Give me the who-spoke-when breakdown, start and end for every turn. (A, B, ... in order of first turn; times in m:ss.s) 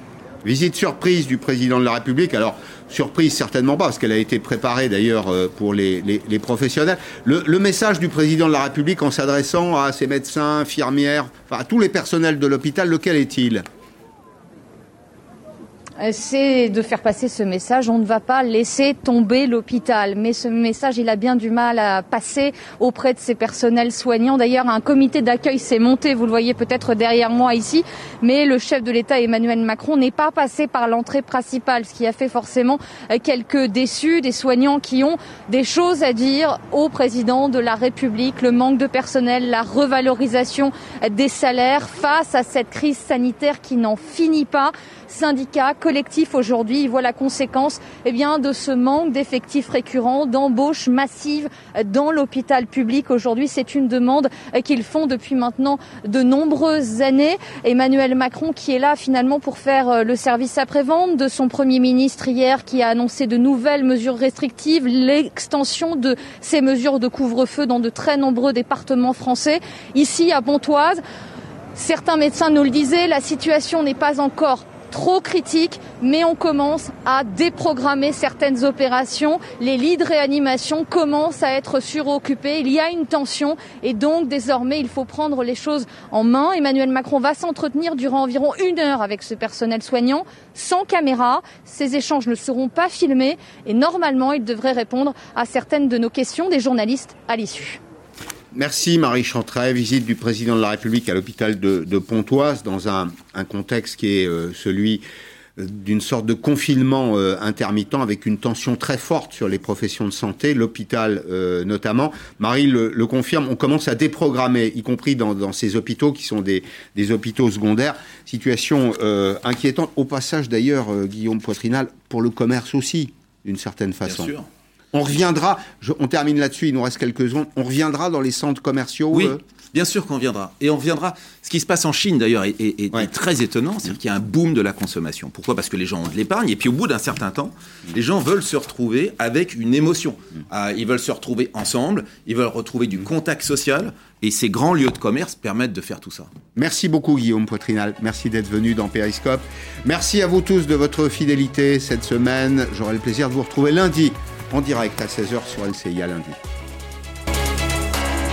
0:00.4-0:13.6 A
0:16.0-1:11.0 B
1:11.7-1:37.8 B
1:38.5-1:45.0 A
1:45.6-2:04.3 A
2:04.0-2:04.5 C
2:04.9-2:09.4 A
2:09.1-2:26.3 C
2:26.6-2:36.4 A